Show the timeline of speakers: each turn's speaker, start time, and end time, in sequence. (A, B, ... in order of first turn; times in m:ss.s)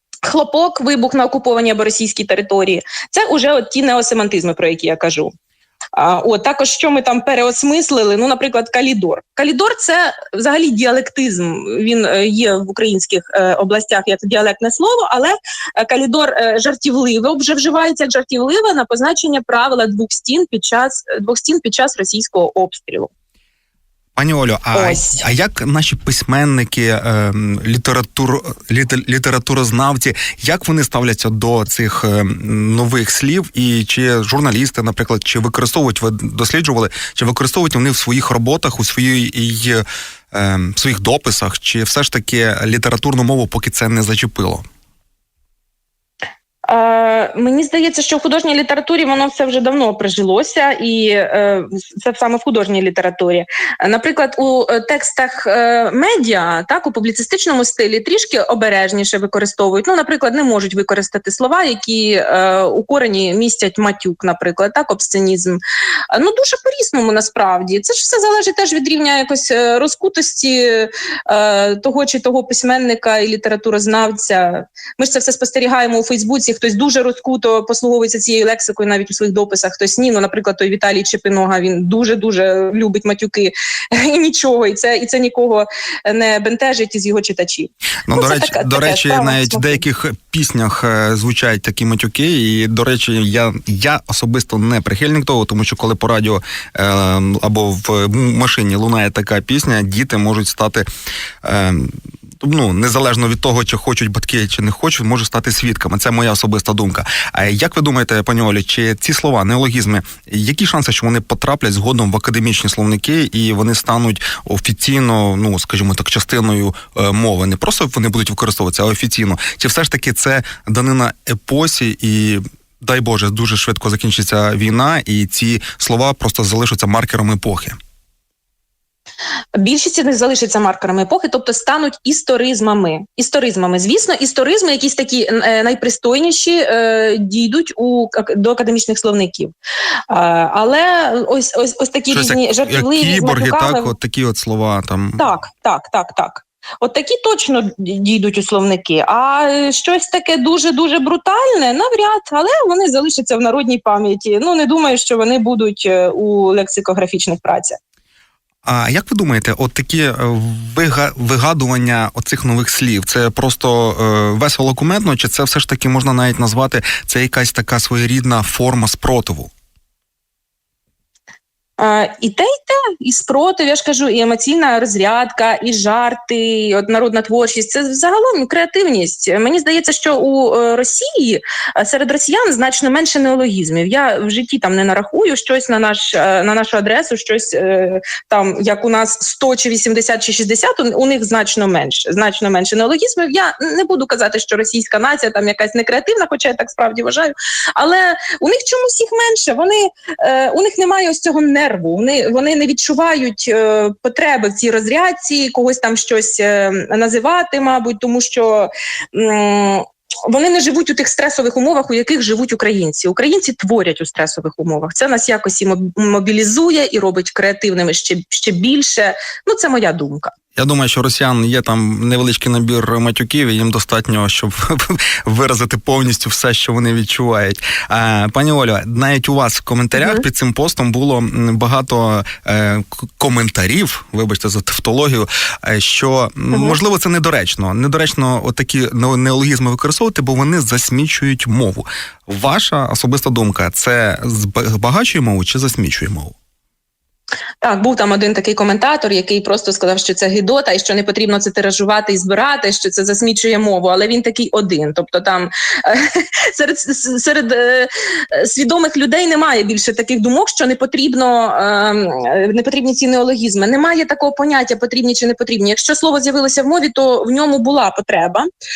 0:00.2-0:05.3 A
0:05.9-0:23.1 A
0:24.2-0:44.6 B
0:24.7-0:25.2 A
0:46.6-1:05.6 A
1:06.1-1:29.8 A
1:28.0-1:40.8 B
1:41.4-2:07.8 B
2:09.6-2:19.5 A
2:20.1-2:23.9 A
2:22.1-2:25.3 B
2:25.2-2:37.8 A
2:38.6-2:49.5 B
2:51.8-3:40.3 A
3:40.6-4:06.3 B
3:50.0-3:50.2 A
3:56.5-3:56.8 A
4:07.6-4:28.5 A